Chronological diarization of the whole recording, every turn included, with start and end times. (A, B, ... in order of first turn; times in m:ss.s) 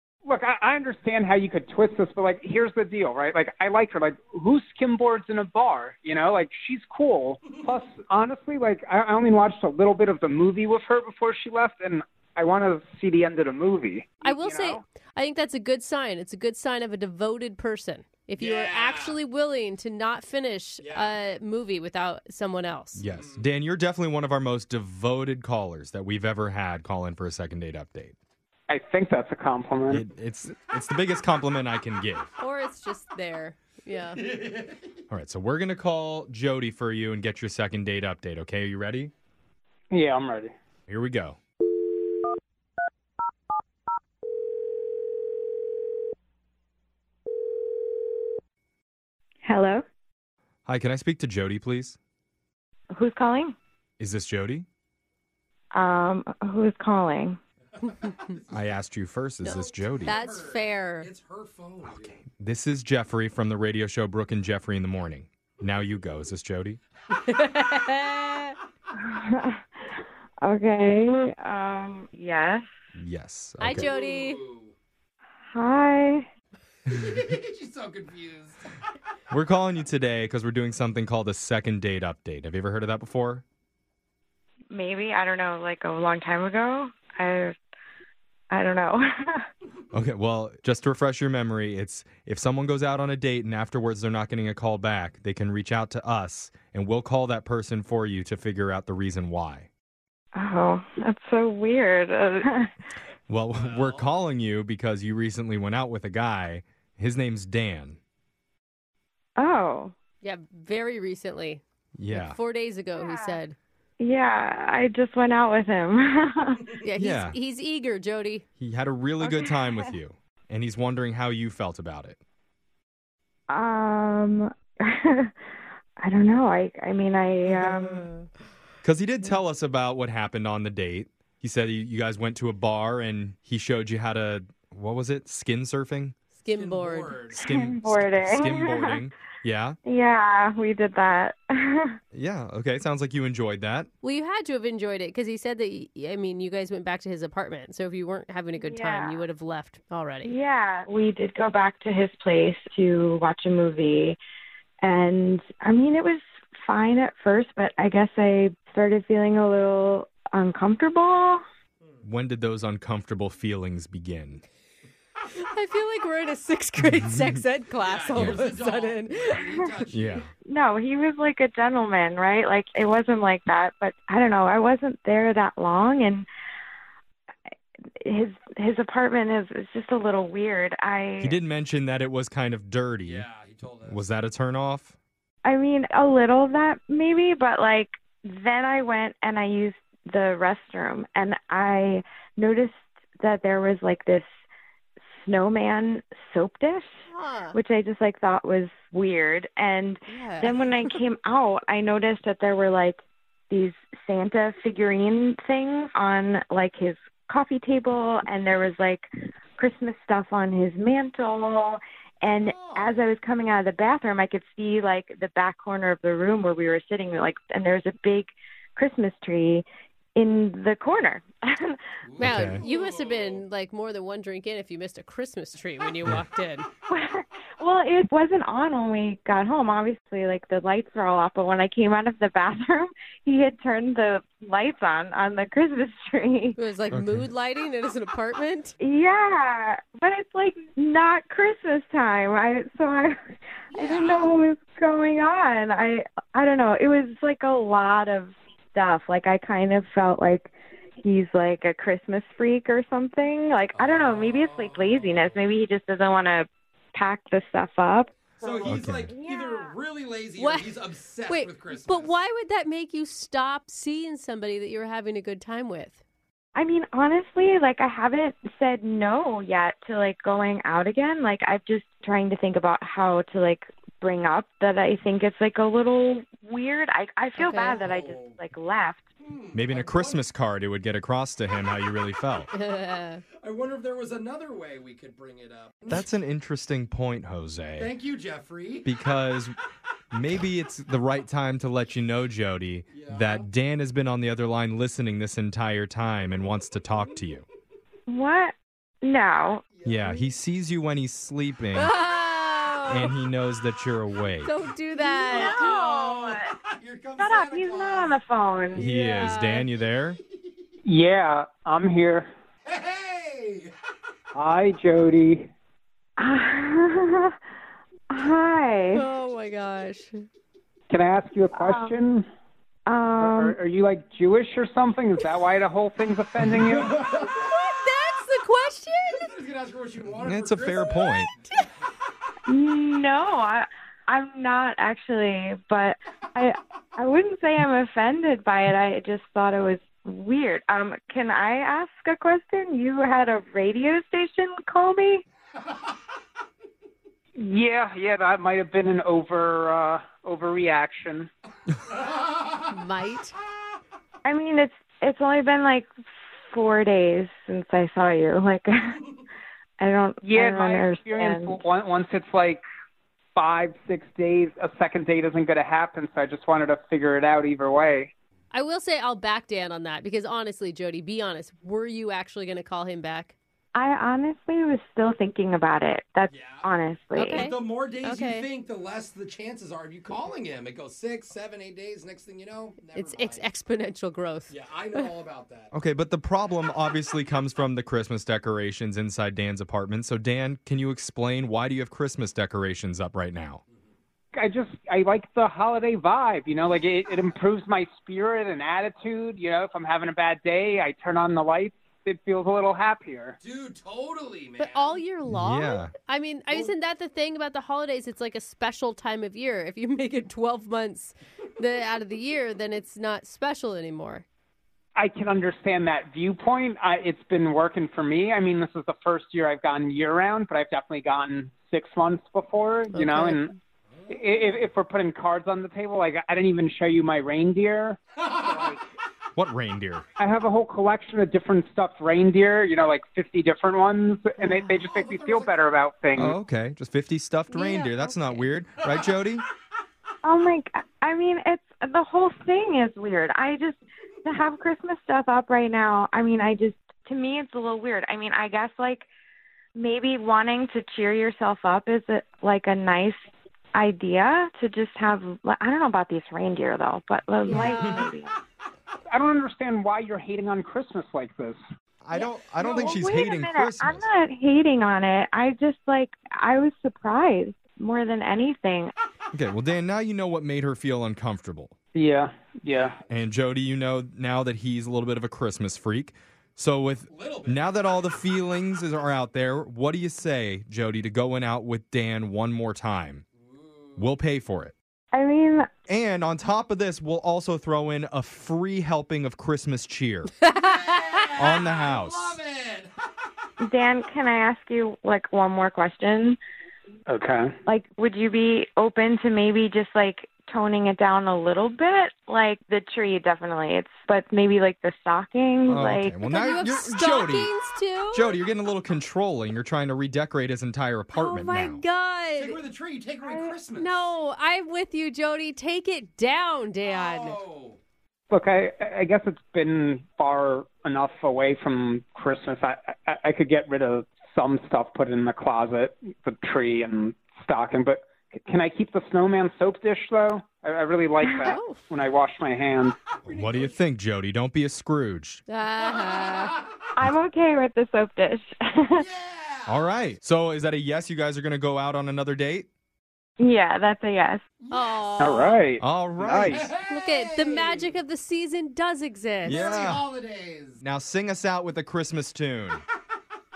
0:00.2-0:14.8 A
0:14.2-0:23.0 B
0:18.4-0:19.2 C
0:20.8-0:21.1 C
0:22.9-0:28.1 D
0:23.0-0:23.5 C
0:28.7-0:30.0 A
0:29.9-0:32.3 D
0:32.4-0:34.2 B
0:34.2-0:35.0 C
0:35.1-0:39.1 D
0:39.9-0:40.5 A
0:40.9-0:41.4 D
0:49.4-0:49.8 E
0:50.6-0:52.0 D
0:52.9-0:53.6 E
0:54.0-0:54.7 D
0:55.7-0:57.4 E
0:57.8-0:58.8 C
0:58.5-1:00.2 D
0:59.4-1:01.1 B
0:59.5-1:02.2 C
1:01.8-1:06.8 D
1:07.1-1:08.6 B
1:09.0-1:09.6 E
1:10.4-1:12.6 E
1:13.0-1:13.9 D
1:13.6-1:14.4 B
1:13.7-1:14.7 C
1:15.5-1:16.3 E
1:16.9-1:18.7 C
1:19.3-1:23.4 D
1:24.7-1:27.5 E
1:28.5-1:29.4 E
1:29.9-1:39.7 D
1:40.3-1:42.7 E
1:43.3-1:48.0 D
1:43.5-1:44.1 C
1:49.4-1:49.9 E
1:50.2-1:53.6 B
1:52.0-1:52.4 D
1:53.0-1:53.4 E
1:54.0-1:56.6 E
1:56.8-1:58.4 B
1:57.0-1:57.4 D
1:58.6-2:02.2 D
1:59.2-1:59.9 E
2:03.5-2:05.3 E
2:06.0-2:08.1 E
2:08.8-2:16.2 D
2:16.4-2:17.2 B
2:16.5-2:17.4 C
2:17.3-2:19.8 D
2:17.3-2:19.0 E
2:19.8-2:22.0 E
2:22.1-2:23.9 D
2:24.0-2:30.3 B
2:28.6-2:29.2 E
2:30.2-2:34.2 E
2:34.8-2:41.4 E
2:42.0-2:44.4 D
2:45.3-2:49.4 B
2:46.8-2:47.3 D
2:47.8-2:50.3 C
2:49.9-2:50.2 D
2:50.4-2:56.2 E
2:58.0-3:01.4 E
3:01.2-3:03.2 D
3:03.0-3:04.1 C
3:03.9-3:04.9 D
3:05.4-3:14.3 E
3:15.1-3:16.9 E
3:17.1-3:17.6 B
3:17.5-3:29.1 E
3:20.1-3:20.5 B
3:29.6-3:39.6 E
3:32.3-3:33.0 C
3:40.2-3:41.8 E
3:42.0-3:43.4 C
3:42.2-3:46.7 B
3:42.2-3:42.6 D
3:46.9-3:56.6 E
3:56.6-3:58.7 B
3:56.9-3:57.3 D
3:58.8-4:03.2 E
4:03.7-4:19.7 E
4:03.7-4:04.3 C
4:13.7-4:15.4 C
4:18.4-4:22.2 C
4:18.6-4:19.1 D
4:20.4-4:20.7 B
4:21.2-4:26.0 B
4:26.5-4:39.0 E
4:37.4-4:37.8 B
4:37.6-4:38.4 C
4:39.2-4:40.2 C
4:39.5-4:42.5 D
4:42.5-4:43.2 B
4:43.4-4:46.1 C
4:45.9-4:47.9 D
4:47.8-4:48.9 C
4:48.8-4:49.6 D
4:50.1-4:57.4 D
4:52.9-4:53.4 C
4:58.1-4:59.6 E
4:59.7-5:00.2 C
4:59.8-5:01.9 D
5:01.7-5:03.1 B
5:02.9-5:04.5 D
5:04.4-5:05.8 B
5:05.0-5:06.5 E
5:05.3-5:08.2 C
5:07.2-5:08.8 E
5:08.7-5:09.7 B
5:08.7-5:10.2 D
5:10.8-5:12.3 A
5:12.6-5:13.7 C
5:14.3-5:15.5 A
5:16.2-5:17.3 E
5:18.1-5:19.0 E
5:18.9-5:20.3 B
5:20.9-5:22.2 A
5:21.5-5:22.0 E
5:22.8-5:23.6 E
5:23.2-5:27.0 A
5:26.7-5:27.4 C
5:27.4-5:29.3 B
5:29.2-5:31.3 C
5:30.2-5:31.3 D
5:32.5-5:45.2 E
5:47.4-5:51.3 A
5:51.9-5:52.7 C
5:52.7-5:53.3 B
5:54.2-5:55.9 E
5:56.5-5:59.0 E
5:59.8-6:01.6 E
6:00.2-6:02.6 A
6:03.4-6:08.1 A
6:08.5-6:13.4 B
6:13.7-6:17.5 E
6:16.3-6:16.7 C
6:17.1-6:18.5 B
6:17.3-6:23.4 C
6:22.9-6:25.1 B
6:24.5-6:25.7 C
6:25.7-6:33.6 D
6:34.3-6:43.4 A
6:43.4-6:45.0 C
6:44.6-6:54.2 B
6:45.3-6:45.9 D
6:55.0-7:03.5 A
7:02.9-7:03.5 B
7:03.9-7:04.6 C
7:04.1-7:08.8 A
7:08.3-7:08.7 C
7:09.4-7:10.0 D
7:10.2-7:16.4 A
7:14.6-7:15.5 C
7:16.1-7:19.4 D
7:17.5-7:18.4 B
7:18.8-7:19.1 C
7:20.2-7:29.1 E
7:29.8-7:33.2 E
7:33.7-7:38.3 E
7:37.4-7:38.1 B
7:37.5-7:37.8 C
7:39.1-7:41.6 A
7:42.0-7:44.1 D
7:42.1-7:48.9 E
7:49.3-7:51.7 D
7:51.9-7:53.0 A
7:52.7-7:53.0 C
7:53.1-8:03.2 D
7:57.1-7:57.9 C
8:03.4-8:04.1 C
8:04.0-8:04.7 D
8:05.1-8:05.7 E
8:05.9-8:10.3 D
8:10.5-8:11.1 B
8:10.5-8:12.9 C
8:11.4-8:12.4 D
8:13.6-8:16.4 E
8:17.1-8:17.5 A
8:17.6-8:26.2 E
8:25.7-8:27.5 D
8:26.2-8:28.3 B
8:28.1-8:31.8 D
8:31.1-8:32.6 B
8:32.4-8:34.1 C
8:33.7-8:37.4 B
8:36.8-8:37.8 C
8:38.3-8:53.0 A
8:51.4-8:51.8 B
8:53.2-8:53.8 C
8:53.3-8:55.4 D
8:55.5-8:56.5 B
8:55.8-8:56.7 C
8:57.0-8:59.0 E
8:58.9-8:59.9 C
8:59.7-9:02.7 D
9:03.4-9:04.4 E
9:04.6-9:05.3 C
9:04.7-9:05.6 B
9:05.2-9:06.7 A
9:05.8-9:06.7 D
9:06.3-9:08.0 C
9:06.9-9:09.7 B
9:09.4-9:10.8 C
9:09.4-9:10.0 D
9:10.8-9:12.8 D